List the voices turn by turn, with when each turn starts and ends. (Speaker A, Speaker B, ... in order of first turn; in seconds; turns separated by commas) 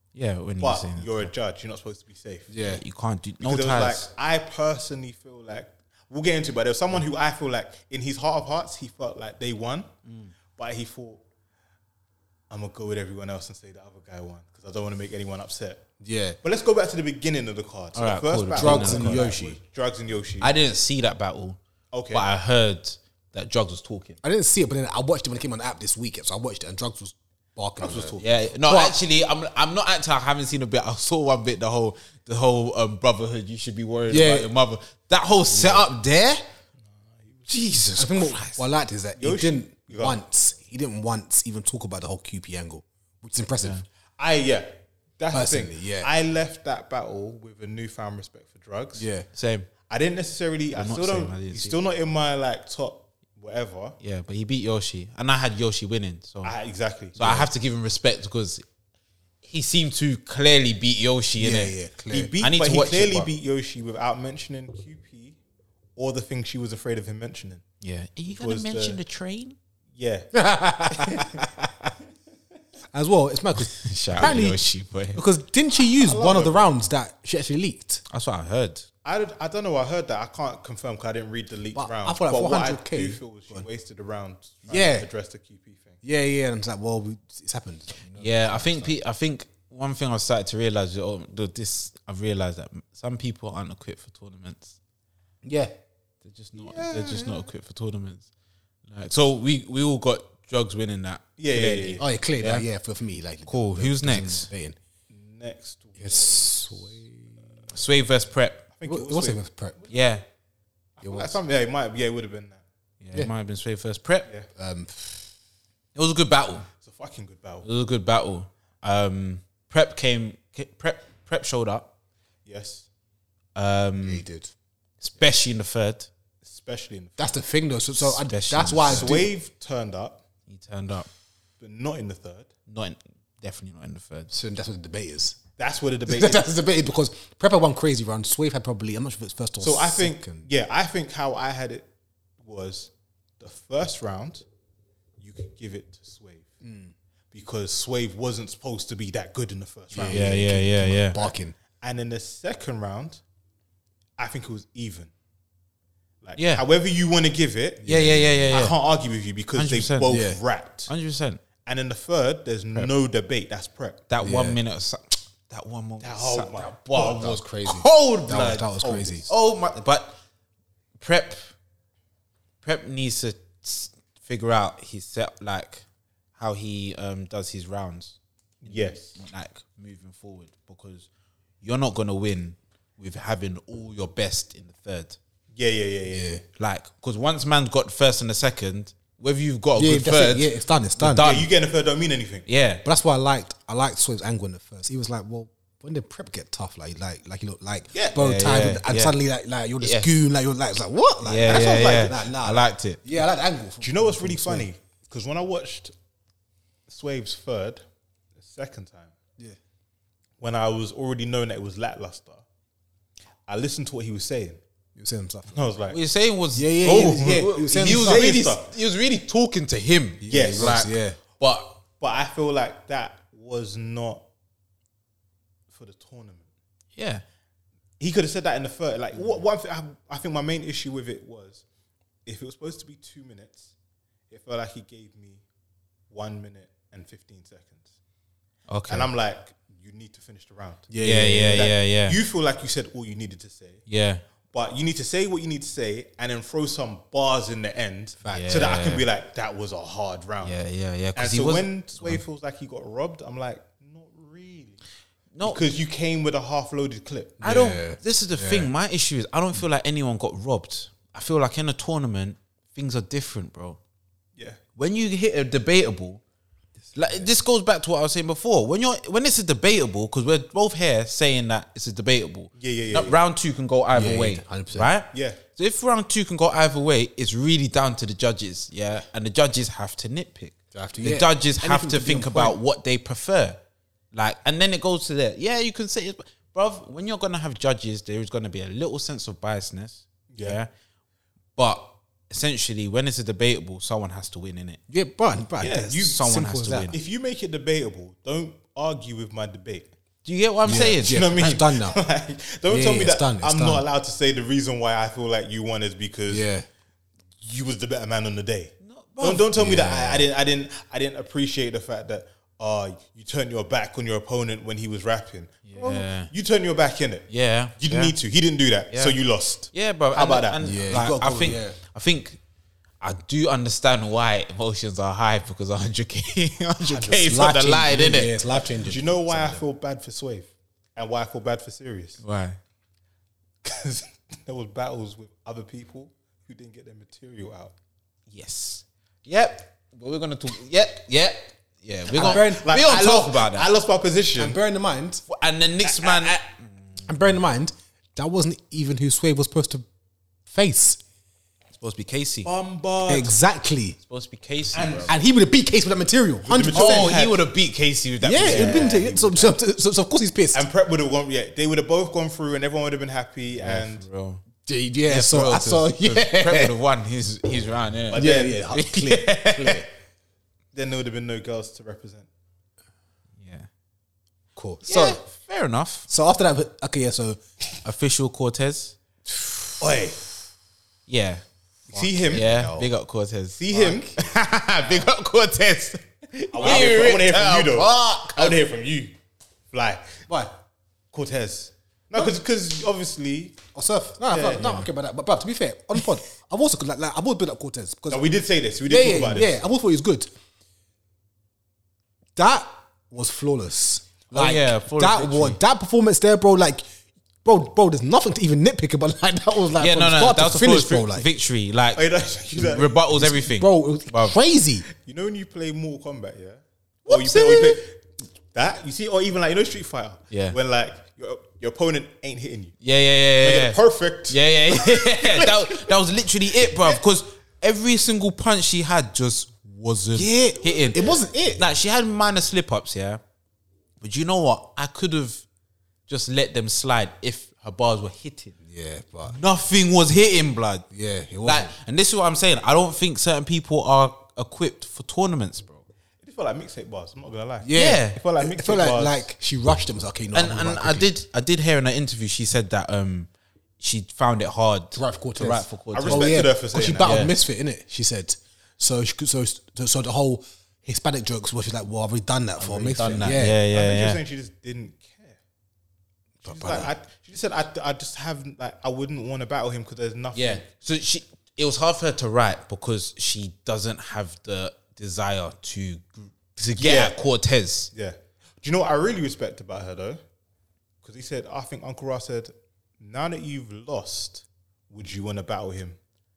Speaker A: 0.1-1.3, Speaker B: 0.6-2.5, Speaker C: 2.5-2.8, Speaker A: 2.6-4.0, Speaker B: 3.4-9.9, Speaker A: 10.0-10.3, Speaker B: 10.6-11.2, Speaker B: 12.5-15.8, Speaker C: 16.0-16.4, Speaker B: 16.4-20.5, Speaker A: 17.9-19.4, Speaker C: 18.5-19.6, Speaker A: 20.4-21.6, Speaker B: 21.9-22.2, Speaker A: 22.1-24.2, Speaker C: 24.2-29.0, Speaker B: 27.8-28.4, Speaker A: 28.2-36.4, Speaker C: 34.1-34.5, Speaker C: 35.5-36.4, Speaker A: 37.5-38.6, Speaker C: 37.9-43.8, Speaker B: 39.2-40.2, Speaker B: 44.2-49.0, Speaker C: 45.3-46.1, Speaker C: 49.0-49.3, Speaker A: 49.3-49.7, Speaker B: 49.9-54.0, Speaker A: 50.7-51.8, Speaker A: 54.0-56.5, Speaker B: 56.4-57.4, Speaker A: 57.2-58.6, Speaker A: 59.4-61.7, Speaker C: 61.4-62.3, Speaker B: 62.1-65.4, Speaker A: 62.4-63.3, Speaker B: 66.0-67.6, Speaker A: 67.8-69.6, Speaker B: 68.3-69.0, Speaker B: 70.0-70.3, Speaker C: 70.3-71.3, Speaker B: 70.9-71.2, Speaker C: 72.9-74.6, Speaker A: 73.7-75.2, Speaker C: 75.1-78.0, Speaker B: 76.0-76.7, Speaker A: 78.1-78.8, Speaker B: 79.0-86.0, Speaker C: 81.7-83.7, Speaker C: 84.7-85.1, Speaker C: 86.0-89.0, Speaker A: 88.2-94.8, Speaker C: 95.4-95.7, Speaker A: 96.2-98.3, Speaker B: 96.5-97.4, Speaker A: 98.9-102.7, Speaker B: 101.4-102.0, Speaker C: 102.0-104.8, Speaker A: 103.5-104.5, Speaker B: 105.1-107.0, Speaker C: 106.0-107.3, Speaker A: 107.7-108.6, Speaker B: 108.7-109.9, Speaker C: 108.9-109.7, Speaker A: 109.9-110.2, Speaker B: 111.0-112.6, Speaker C: 111.0-111.4, Speaker A: 113.0-114.3, Speaker C: 114.5-115.3, Speaker A: 115.9-116.7, Speaker B: 116.8-117.7, Speaker A: 117.6-121.9, Speaker B: 122.4-122.9, Speaker A: 123.5-124.2, Speaker C: 124.0-124.5, Speaker A: 125.0-126.1, Speaker B: 126.4-127.3, Speaker C: 127.2-129.3, Speaker A: 128.0-129.2, Speaker B: 128.8-130.2, Speaker A: 130.5-131.1, Speaker B: 131.6-132.5, Speaker A: 132.7-134.3, Speaker C: 134.3-135.4, Speaker B: 135.6-136.5, Speaker C: 136.1-140.4, Speaker B: 139.6-141.8, Speaker B: 142.4-144.4, Speaker B: 145.2-146.5, Speaker C: 146.6-146.9, Speaker B: 147.3-150.3, Speaker C: 149.9-151.5, Speaker A: 150.1-151.3, Speaker B: 151.8-153.2, Speaker B: 154.2-155.1, Speaker B: 156.2-157.9, Speaker A: 156.4-156.6, Speaker C: 157.8-158.6, Speaker A: 157.8-158.8, Speaker B: 158.5-160.9, Speaker A: 159.5-160.2, Speaker C: 160.1-160.4, Speaker A: 160.9-161.4, Speaker B: 161.7-164.0, Speaker A: 164.1-170.2, Speaker C: 164.2-164.6, Speaker B: 166.0-166.8, Speaker C: 166.9-169.3, Speaker A: 171.0-171.5, Speaker A: 172.6-175.8, Speaker A: 176.4-181.1, Speaker B: 178.6-179.2, Speaker A: 181.6-185.2, Speaker B: 185.5-186.4, Speaker C: 186.1-186.4, Speaker A: 186.6-191.5, Speaker C: 189.8-191.4, Speaker B: 191.2-192.4, Speaker A: 192.4-192.8, Speaker C: 192.8-204.7, Speaker B: 197.9-198.2, Speaker A: 198.1-199.2, Speaker A: 199.8-200.1, Speaker A: 201.2-203.0, Speaker B: 201.4-202.2, Speaker B: 203.8-205.9, Speaker B: 206.9-207.8, Speaker B: 208.4-209.1, Speaker B: 210.4-212.4, Speaker B: 213.5-214.6, Speaker C: 214.9-215.6, Speaker B: 215.5-216.0, Speaker A: 215.9-221.8, Speaker C: 216.5-218.4, Speaker B: 216.9-218.7, Speaker C: 220.2-221.2, Speaker B: 220.3-220.8, Speaker B: 222.0-224.2, Speaker B: 225.7-226.5, Speaker A: 226.9-227.2, Speaker B: 228.0-231.6, Speaker B: 232.2-233.7, Speaker B: 234.3-235.4, Speaker B: 236.1-237.9, Speaker A: 238.7-239.1, Speaker B: 238.9-240.9, Speaker C: 240.9-241.7, Speaker A: 241.0-242.2, Speaker B: 241.5-243.8, Speaker A: 243.9-244.2, Speaker B: 244.5-250.6, Speaker C: 248.2-248.5, Speaker A: 248.3-249.0, Speaker A: 250.4-252.2, Speaker B: 251.1-254.8, Speaker A: 255.3-255.6, Speaker B: 255.4-257.4, Speaker C: 257.4-258.7, Speaker A: 257.4-263.8, Speaker A: 264.8-266.2, Speaker A: 266.9-283.6, Speaker B: 272.6-273.2, Speaker C: 273.9-274.9, Speaker B: 275.1-275.4, Speaker C: 280.7-282.6, Speaker A: 284.1-290.7, Speaker B: 290.3-290.6, Speaker A: 291.6-294.8, Speaker C: 294.9-296.9, Speaker B: 295.6-296.2, Speaker A: 296.0-297.0, Speaker B: 296.9-299.9, Speaker A: 300.2-301.6, Speaker C: 300.6-302.0, Speaker B: 301.0-306.4, Speaker C: 302.7-303.8, Speaker C: 306.3-306.6, Speaker B: 307.4-317.3, Speaker A: 308.8-310.0, Speaker C: 309.6-310.2, Speaker A: 315.7-316.3, Speaker A: 317.3-318.1, Speaker B: 317.8-320.6, Speaker A: 318.9-319.2, Speaker A: 319.7-322.4, Speaker C: 320.6-321.8, Speaker A: 323.0-328.4, Speaker B: 326.9-327.5, Speaker C: 327.1-329.6, Speaker B: 328.8-332.2, Speaker A: 332.2-332.6, Speaker B: 333.6-337.7, Speaker A: 338.3-343.7, Speaker C: 342.1-342.8, Speaker B: 342.1-344.6, Speaker C: 344.3-345.2, Speaker A: 345.3-347.0, Speaker B: 345.8-346.4, Speaker C: 347.1-349.9, Speaker C: 350.5-351.0, Speaker A: 351.8-352.5, Speaker B: 352.4-353.3, Speaker C: 353.1-354.0, Speaker A: 354.1-355.1, Speaker B: 354.7-355.1, Speaker C: 355.1-357.2, Speaker B: 356.4-357.4, Speaker A: 356.7-359.3, Speaker C: 358.2-360.7, Speaker B: 358.4-359.5, Speaker B: 360.5-364.0, Speaker A: 363.6-364.4, Speaker C: 364.6-366.7, Speaker A: 365.1-369.9, Speaker B: 368.1-368.6, Speaker C: 368.1-369.9, Speaker B: 370.7-372.3, Speaker A: 373.4-373.7, Speaker C: 374.6-375.2, Speaker A: 374.9-376.1, Speaker C: 376.1-377.4, Speaker A: 377.8-378.9, Speaker B: 379.8-380.2, Speaker A: 381.1-381.4, Speaker B: 381.9-382.4, Speaker C: 381.9-382.9, Speaker A: 382.3-388.3, Speaker B: 383.6-384.1, Speaker C: 383.7-384.2, Speaker B: 386.5-389.1, Speaker C: 386.6-387.0, Speaker C: 387.8-388.5, Speaker B: 389.7-390.2, Speaker C: 390.3-390.5, Speaker B: 391.1-393.6, Speaker C: 393.7-398.2, Speaker B: 394.3-394.9, Speaker B: 398.1-399.6, Speaker C: 398.9-400.3, Speaker C: 402.4-406.8, Speaker A: 404.3-405.6, Speaker C: 407.4-411.3, Speaker A: 409.8-414.4, Speaker B: 411.9-413.0, Speaker C: 413.1-414.8, Speaker B: 414.9-418.0, Speaker C: 417.1-417.6, Speaker B: 418.5-422.7, Speaker A: 420.3-420.6, Speaker A: 422.8-433.2, Speaker B: 423.4-425.9, Speaker C: 430.1-431.6, Speaker A: 434.0-435.4, Speaker A: 436.1-438.5, Speaker C: 438.7-439.4, Speaker A: 439.3-440.8, Speaker C: 440.9-441.7, Speaker A: 441.4-445.8, Speaker B: 446.2-449.2, Speaker C: 447.6-451.1, Speaker A: 447.7-448.2, Speaker A: 450.3-456.4, Speaker C: 454.9-463.6, Speaker B: 455.9-457.3, Speaker A: 457.0-457.3, Speaker A: 462.6-464.2, Speaker B: 463.4-465.4, Speaker C: 466.4-466.9, Speaker B: 466.4-470.6, Speaker A: 470.3-477.9, Speaker B: 476.8-477.1, Speaker B: 477.9-480.2, Speaker B: 481.0-486.0